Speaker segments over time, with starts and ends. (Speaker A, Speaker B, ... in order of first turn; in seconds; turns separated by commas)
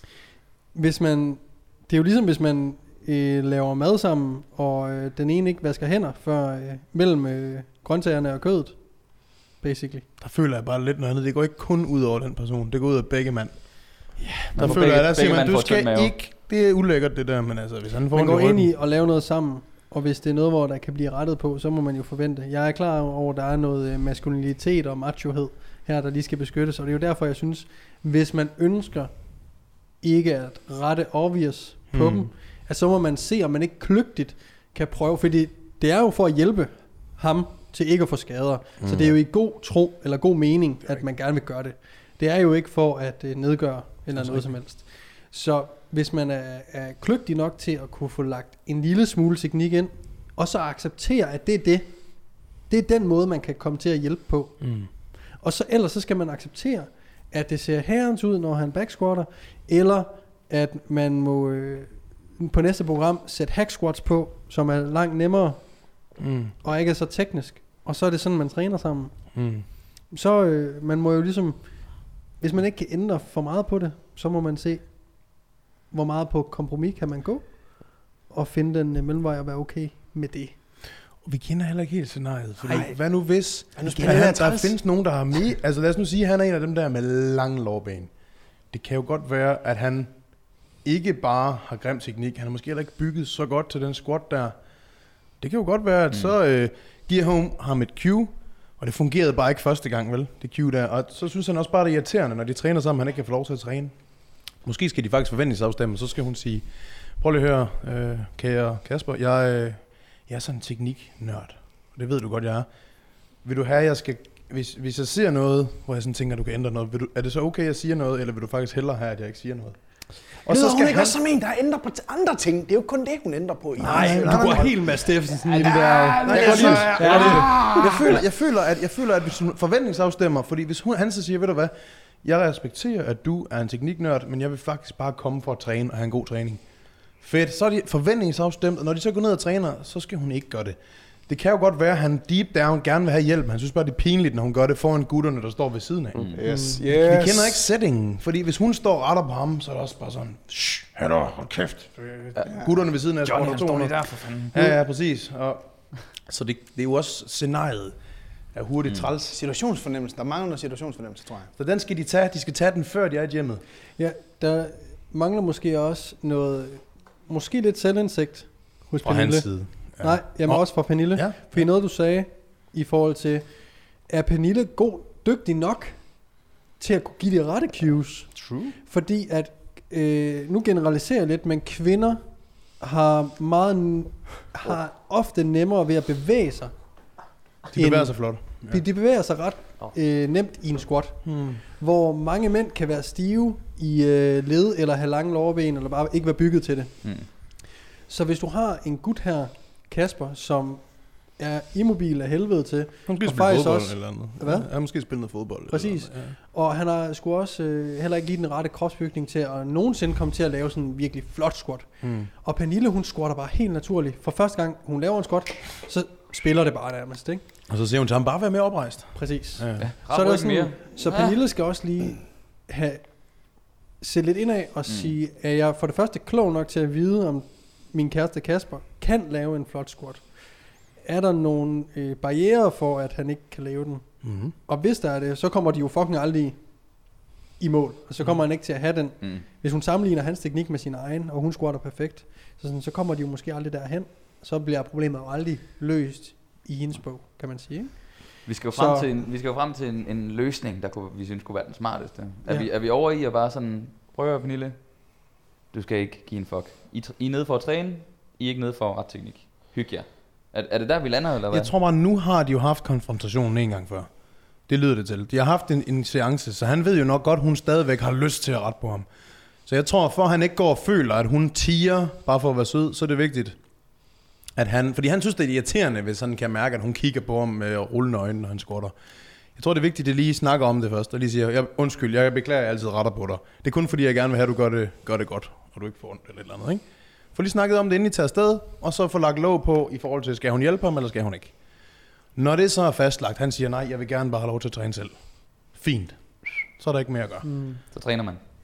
Speaker A: 0.7-10.1, Speaker B: 10.2-18.7, Speaker C: 14.6-16.1, Speaker A: 18.1-80.5, Speaker B: 31.9-32.3, Speaker B: 38.8-39.2, Speaker B: 44.1-44.6, Speaker B: 54.6-54.9, Speaker B: 66.2-66.5, Speaker B: 69.3-69.7, Speaker B: 81.1-121.2, Speaker A: 82.6-85.2, Speaker D: 83.8-84.5, Speaker D: 120.4-128.0, Speaker B: 123.8-125.0, Speaker A: 123.8-127.9, Speaker B: 126.2-158.0, Speaker D: 146.3-147.7, Speaker D: 152.1-154.7, Speaker B: 158.5-159.4, Speaker D: 159.3-161.5, Speaker B: 161.6-163.6, Speaker A: 163.9-217.4, Speaker B: 169.0-171.7, Speaker B: 178.4-178.7, Speaker B: 187.7-188.8, Speaker B: 191.2-191.6, Speaker B: 203.1-206.3, Speaker B: 212.0-212.3, Speaker B: 217.7-219.9, Speaker A: 219.1-249.1, Speaker C: 219.8-221.3, Speaker C: 224.9-225.1, Speaker B: 234.2-234.5, Speaker C: 239.2-239.4, Speaker C: 248.4-261.7, Speaker A: 252.4-252.7, Speaker B: 261.5-269.1, Speaker B: 269.6-278.9, Speaker B: 279.5-297.5, Speaker A: 297.4-297.8, Speaker C: 297.9-298.4